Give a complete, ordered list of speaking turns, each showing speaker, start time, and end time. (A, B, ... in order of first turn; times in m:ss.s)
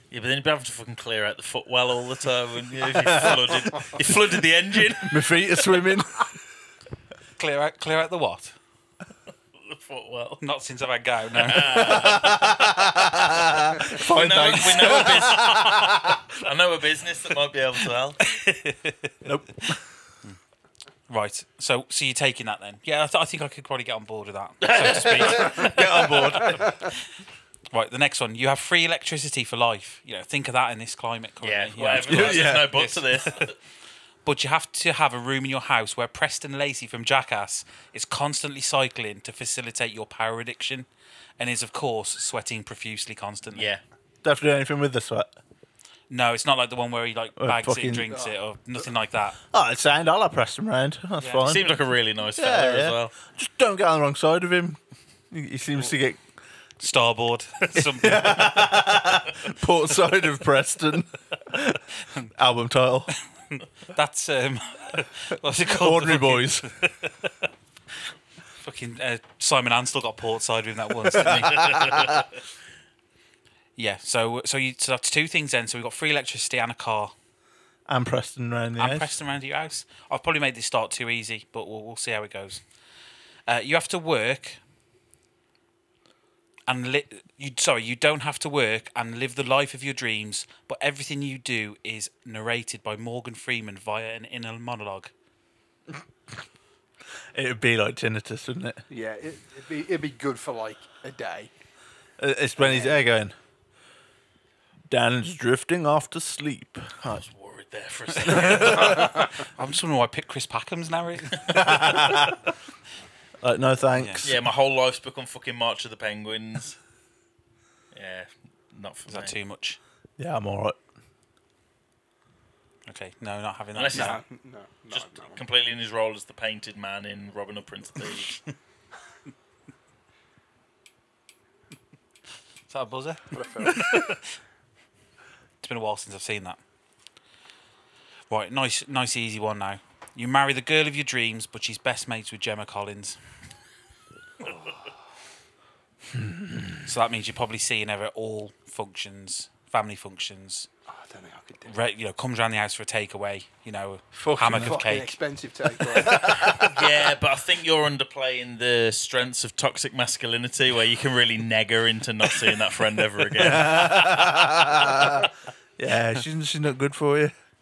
0:00.1-0:05.2 A
0:02.9-0:03.9 B
0:05.0-0:06.3 B
0:07.4-0:08.6 C
0:09.6-0:10.4 A
0:10.4-0:12.2 C
0:11.3-0:12.4 A
0:11.8-0:16.2 B
0:13.9-0:15.6 A
0:14.7-0:15.6 C
0:16.4-0:18.2 A
0:18.3-0:19.1 C
0:19.2-0:19.8 B
0:21.1-0:26.7 C
0:24.8-0:26.7 B
0:25.0-0:25.5 A
0:27.7-0:33.5 C
0:31.4-0:33.6 A
0:32.0-0:32.8 B
0:34.2-0:40.9 C
0:41.4-0:43.7 C
0:43.5-0:43.8 A
0:44.2-0:45.3 B
0:46.1-0:49.4 C
0:47.4-0:48.1 B
0:48.1-0:48.3 D
0:49.5-0:51.6 B
0:51.2-0:51.5 C
0:51.4-0:53.1 A
0:52.4-0:54.8 B
0:55.3-0:56.2 B
0:56.8-0:58.7 C
0:57.8-1:01.8 B
1:02.4-1:03.1 B
1:03.6-1:07.3 C
1:05.6-1:06.7 B
1:08.6-1:11.7 C
1:11.1-1:12.3 A
1:11.2-1:12.2 B
1:13.8-1:17.1 C
1:17.9-1:19.1 B
1:18.8-1:22.6 C
1:23.5-1:24.6 C
1:26.7-1:35.1 C
1:37.3-1:38.8 B
1:38.9-1:41.5 D
1:42.2-1:43.3 B
1:42.6-1:43.0 D
1:44.9-1:47.2 B
1:47.0-1:49.1 A
1:48.2-1:52.3 C
1:48.3-1:49.1 B
1:51.5-1:52.4 B
1:53.4-1:54.4 B
1:54.0-1:54.2 C
1:54.2-1:56.8 A
1:57.9-1:59.3 A
1:59.1-1:59.8 C
2:00.2-2:00.8 B
2:02.9-2:04.2 C
2:03.8-2:04.2 A
2:03.9-2:05.4 D
2:04.9-2:08.4 A
2:12.7-2:14.2 C
2:13.3-2:14.1 D
2:15.6-2:16.6 C
2:18.3-2:23.2 C
2:24.4-2:24.9 D
2:26.2-2:26.8 B
2:26.8-2:30.7 C
2:30.9-2:31.8 D
2:31.6-2:35.2 C
2:34.1-2:35.0 B
2:34.5-2:36.7 D
2:36.0-2:36.7 B
2:36.6-2:44.0 A
2:43.4-2:47.3 B